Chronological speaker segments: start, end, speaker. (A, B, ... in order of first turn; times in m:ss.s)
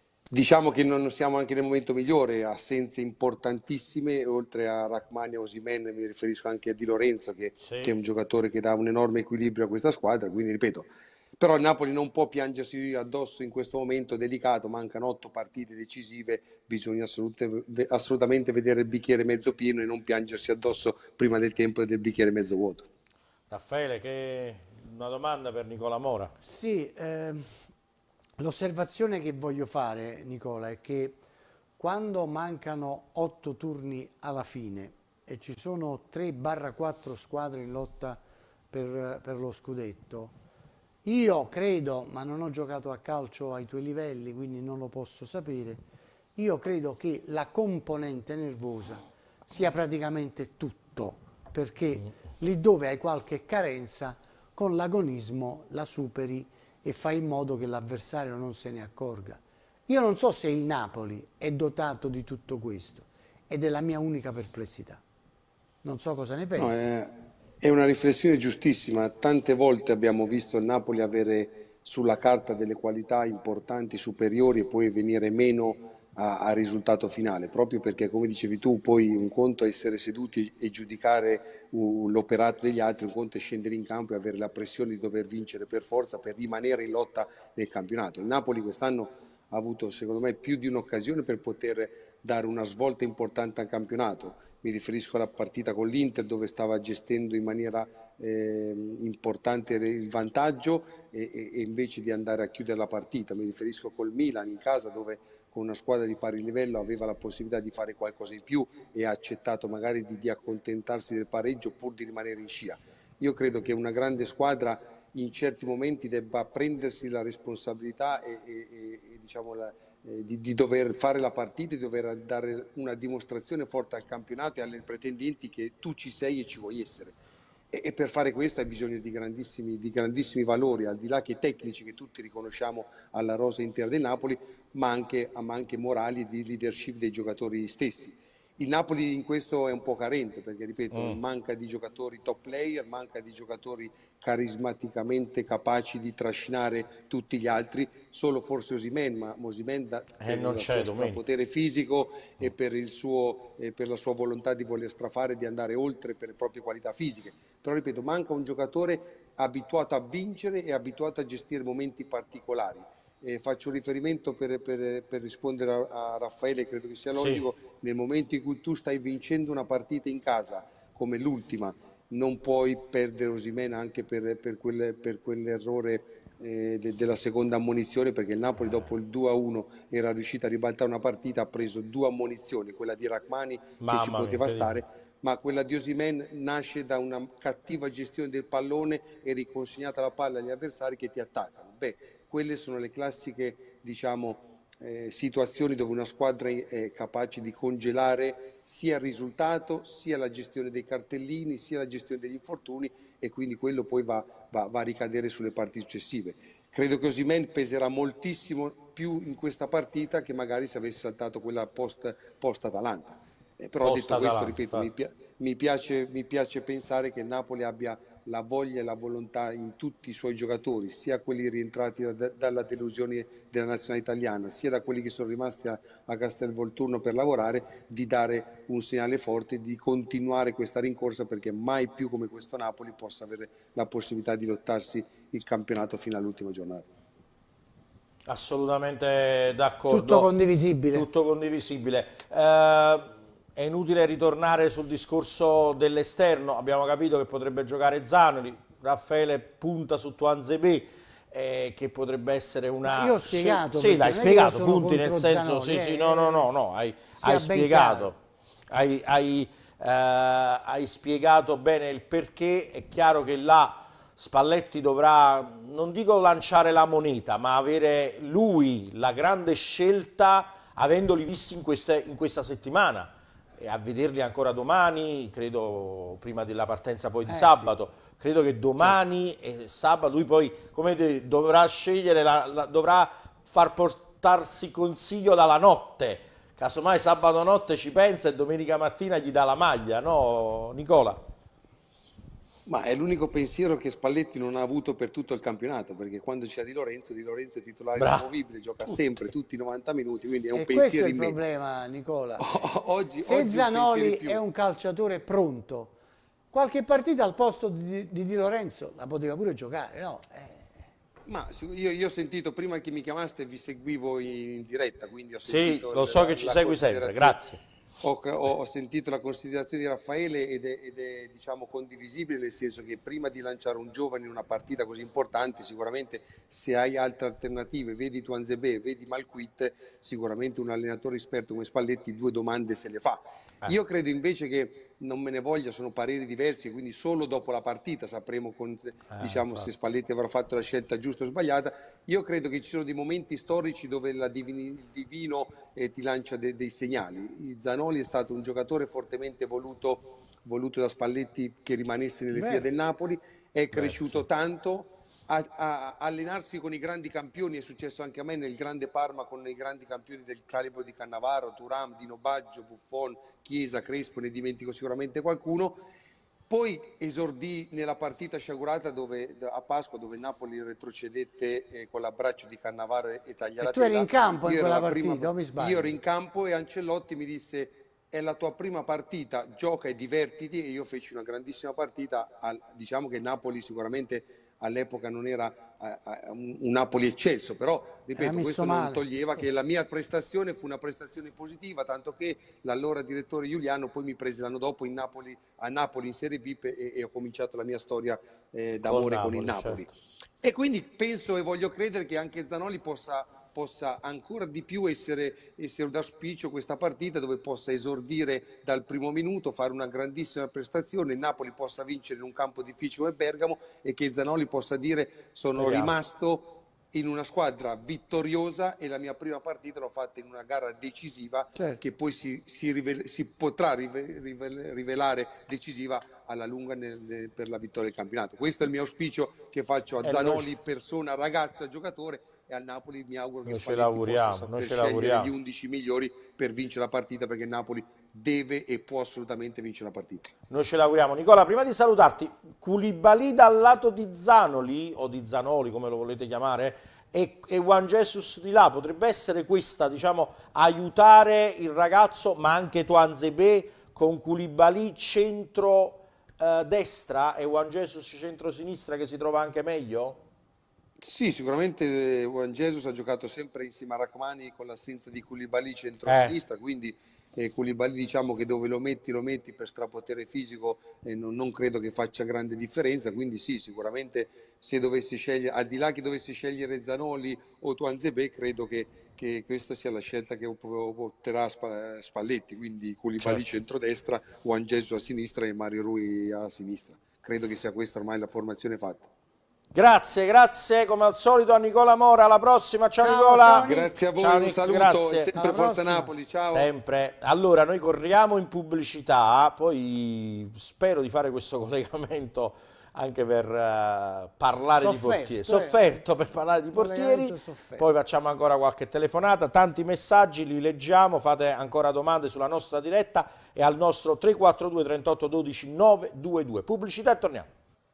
0:00.3-0:22.9 A
0:07.6-0:08.0 B
0:23.5-0:26.3 B
0:26.4-0:27.5 C
0:28.4-0:31.2 C
0:31.8-0:40.3 C
0:41.0-0:45.8 C
0:46.4-1:05.0 C
1:05.8-1:06.9 C
1:06.6-2:07.1 A
2:07.7-3:56.9 A
2:20.9-2:21.2 B
2:30.2-2:31.2 B
2:47.1-2:47.4 B
3:03.8-3:04.7 B
3:33.8-3:34.9 B
3:58.2-4:00.3 B
3:59.9-4:01.1 C
4:00.9-4:18.2 B
4:12.8-4:16.5 C
4:17.2-4:18.1 C
4:18.7-4:51.2 B
4:37.3-4:37.7 C
4:52.6-5:01.4 A
4:58.0-4:58.3 B
4:58.8-4:59.3 B
5:00.5-5:02.6 C
5:02.4-5:04.4 A
5:03.2-5:06.0 C
5:06.5-5:10.9 C
5:11.2-5:17.4 A
5:15.4-5:17.6 B
5:18.0-6:05.8 A
5:39.1-5:39.7 B
5:53.7-5:54.2 B
6:06.5-6:39.9 A
6:13.6-6:16.0 C
6:28.1-6:29.1 C
6:38.8-6:39.8 B
6:40.4-7:20.3 A
6:55.5-6:55.9 B
7:01.5-7:01.8 C
7:10.0-7:10.5 B
7:13.4-7:15.3 B
7:20.5-7:40.2 B
7:41.0-8:09.1 A
7:46.0-7:46.4 B
8:03.2-8:03.4 B
8:09.7-8:15.3 B
8:13.0-8:14.0 C
8:13.5-8:16.7 A
8:15.3-8:16.1 C
8:16.5-8:37.5 B
8:24.8-8:25.9 C
8:26.7-8:27.9 C